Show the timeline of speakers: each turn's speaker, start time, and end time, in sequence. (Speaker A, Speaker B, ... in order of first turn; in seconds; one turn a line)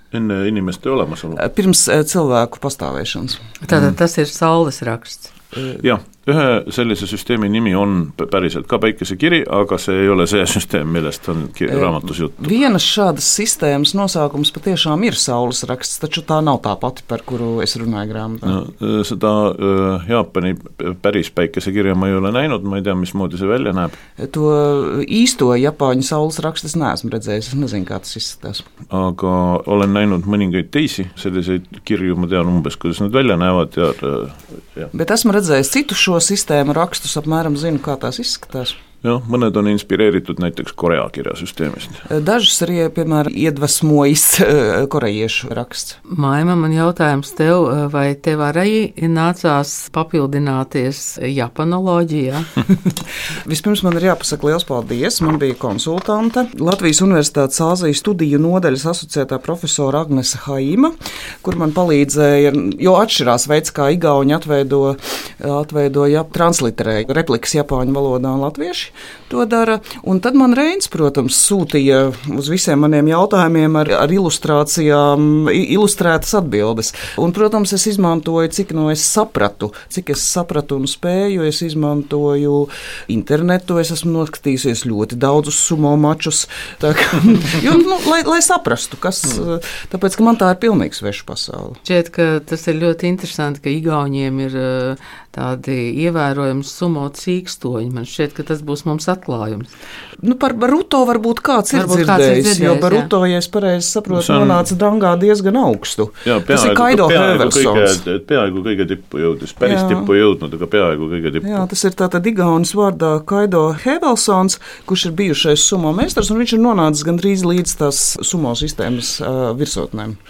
Speaker A: 0.1-1.4
Speaker B: 1.3-3.4
Speaker C: 3.6-5.3
Speaker B: 5.5-5.8
Speaker A: 5.8-12.6
Speaker B: 11.7-18.6
Speaker A: 18.4-23.9
Speaker B: 24.2-28.6
Speaker A: 28.9-34.9
Speaker B: 34.9-38.8
Speaker A: 39.0-42.0
Speaker B: 42.0-46.0
Speaker C: 46.1-52.5
Speaker B: 53.4-91.8
Speaker C: 91.8-99.7
Speaker B: 100.2-108.0
Speaker C: 101.7-103.1
Speaker A: 104.1-104.6
Speaker A: 106.2-111.7
Speaker B: 109.6-110.1
Speaker B: 111.4-120.2